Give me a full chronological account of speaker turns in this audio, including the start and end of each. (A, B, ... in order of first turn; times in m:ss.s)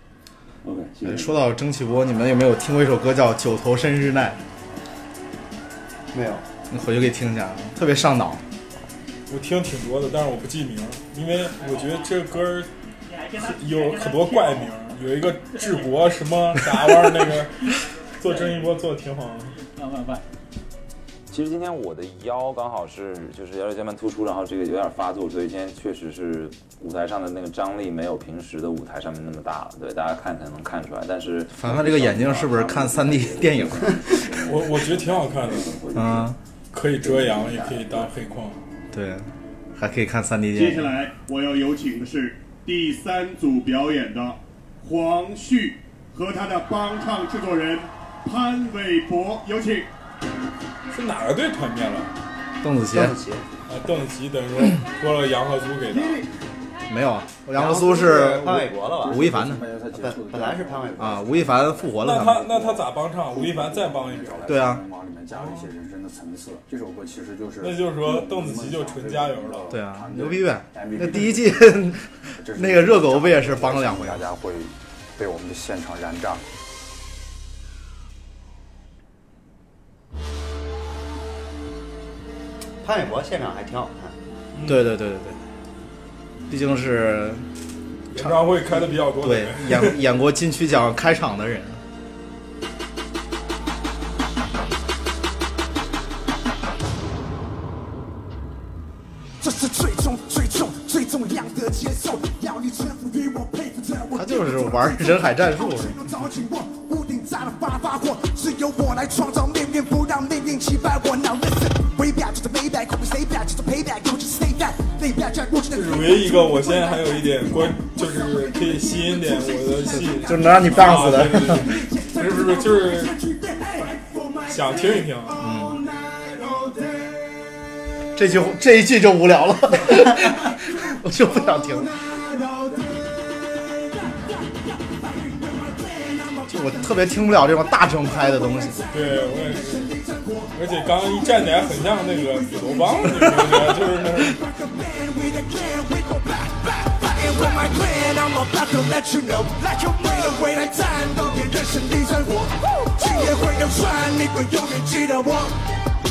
0:00.6-0:01.4 A
0:01.0-0:04.4 B
0:06.1-0:06.4 C
0:06.7-0:08.4 B
0:09.3-0:12.7 D
0:13.4-0:19.6 D
0:21.3-0:36.1 E
0:31.5-0:34.1 B
0:34.4-0:35.8 D
0:35.9-0:36.4 B
0:36.7-0:38.6 D
0:37.0-0:38.1 E
0:38.9-0:40.9 B
0:40.5-0:49.9 F
0:50.9-0:52.1 D
0:52.6-0:53.2 B
0:52.9-0:53.4 C
0:53.7-0:56.2 D
0:56.9-0:59.6 B
0:57.6-0:59.4 C
0:58.2-1:16.4 A
0:59.9-1:01.4 C
1:01.0-1:02.5 B
1:02.0-1:04.5 D
1:04.5-1:04.8 B
1:05.3-1:05.7 D
1:07.6-1:09.7 D
1:09.7-1:14.2 B
1:22.8-1:24.1 C
1:24.5-1:24.9 D
1:24.6-1:25.4 B
1:26.5-1:27.4 B
1:28.1-1:30.0 D
1:28.2-1:28.4 B
1:29.2-1:31.8 B
1:39.4-1:56.4 G
1:44.1-1:46.0 B
1:55.7-2:03.1 D
1:59.9-2:01.7 B
2:02.0-2:04.4 G
2:04.5-2:05.4 D
2:05.4-2:05.8 B
2:08.2-2:11.9 B
2:15.5-2:16.4 G
2:16.5-2:18.8 B
2:18.9-2:19.9 D
2:20.0-2:20.4 G
2:20.5-2:24.4 D
2:24.4-2:35.5 G